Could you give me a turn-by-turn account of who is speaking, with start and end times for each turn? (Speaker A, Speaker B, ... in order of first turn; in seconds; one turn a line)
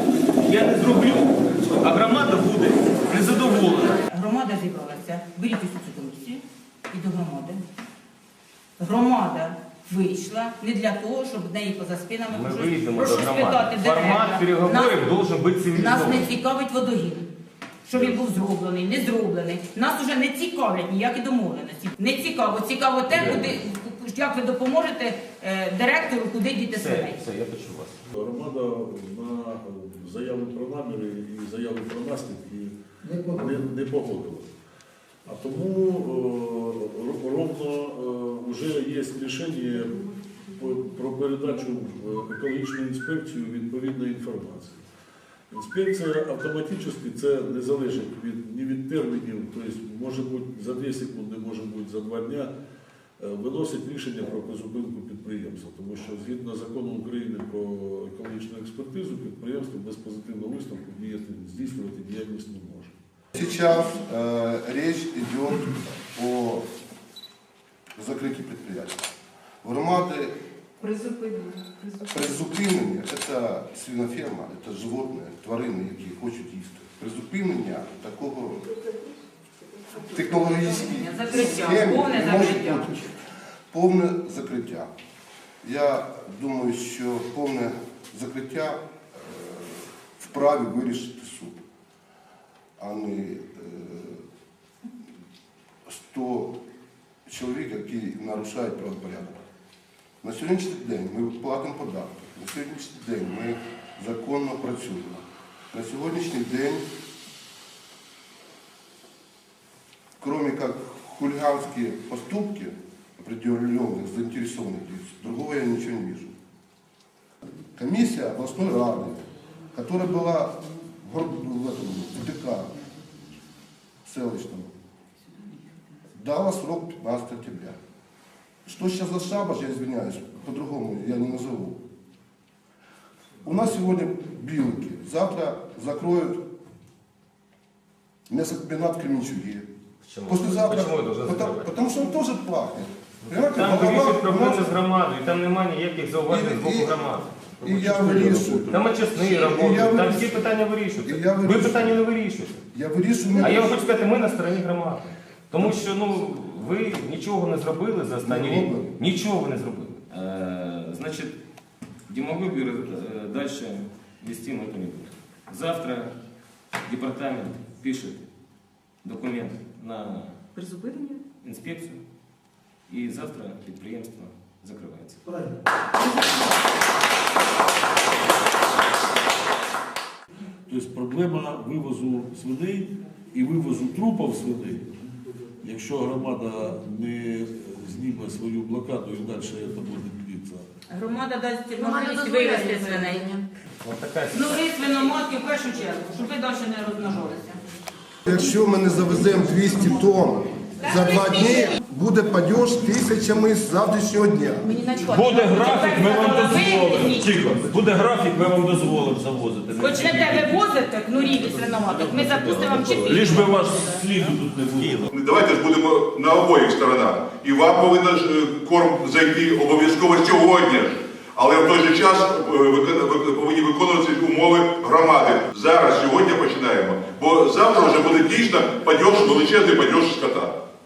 Speaker A: 0.3-4.0
Speaker B: 4.0-7.6
Speaker B: 8.8-15.1
Speaker A: 12.3-16.3
Speaker B: 15.7-17.3
Speaker B: 17.9-27.2
Speaker A: 23.1-23.5
Speaker A: 26.7-27.9
Speaker C: 28.1-34.5
Speaker C: 35.2-44.8
Speaker C: 45.5-52.5
Speaker C: 53.2-63.0
Speaker D: 63.3-66.7
Speaker D: 68.0-69.0
Speaker D: 69.6-70.3
Speaker E: 70.8-71.8
Speaker D: 72.0-78.7
Speaker D: 79.9-83.1
Speaker B: 80.5-82.9
Speaker D: 83.7-84.9
Speaker D: 85.6-91.6
Speaker D: 92.8-94.2
Speaker D: 95.9-96.6
Speaker D: 97.2-99.4
Speaker D: 100.2-106.9
Speaker D: 110.2-116.3
Speaker D: 117.8-122.7
Speaker D: 124.0-124.7
Speaker D: 126.1-127.8
Speaker D: 128.7-131.8
Speaker D: 133.4-136.4
Speaker D: 138.3-139.7
Speaker A: 140.0-141.7
Speaker D: 140.2-144.7
Speaker A: 143.3-147.3
Speaker D: 146.3-147.0
Speaker D: 147.6-150.5
Speaker C: 147.7-148.4
Speaker A: 148.7-152.6
Speaker D: 151.0-152.1
Speaker D: 152.7-153.8
Speaker A: 153.4-161.3
Speaker D: 158.2-158.9
Speaker A: 162.1-166.1
Speaker A: 166.8-168.3
Speaker A: 169.0-170.4
Speaker E: 170.6-171.2
Speaker A: 171.4-172.0
Speaker A: 172.9-175.2
Speaker C: 180.7-184.9
Speaker C: 185.6-190.7
Speaker B: 190.9-193.3
Speaker E: 191.8-193.4
Speaker A: 193.8-194.6
Speaker B: 194.3-197.6
Speaker D: 198.2-204.7
Speaker B: 200.8-201.7
Speaker B: 204.7-207.4
Speaker F: 205.1-210.5
Speaker B: 209.8-214.0
Speaker F: 213.1-214.3
Speaker C: 214.3-215.0
Speaker A: 214.7-215.1
Speaker G: 215.1-230.5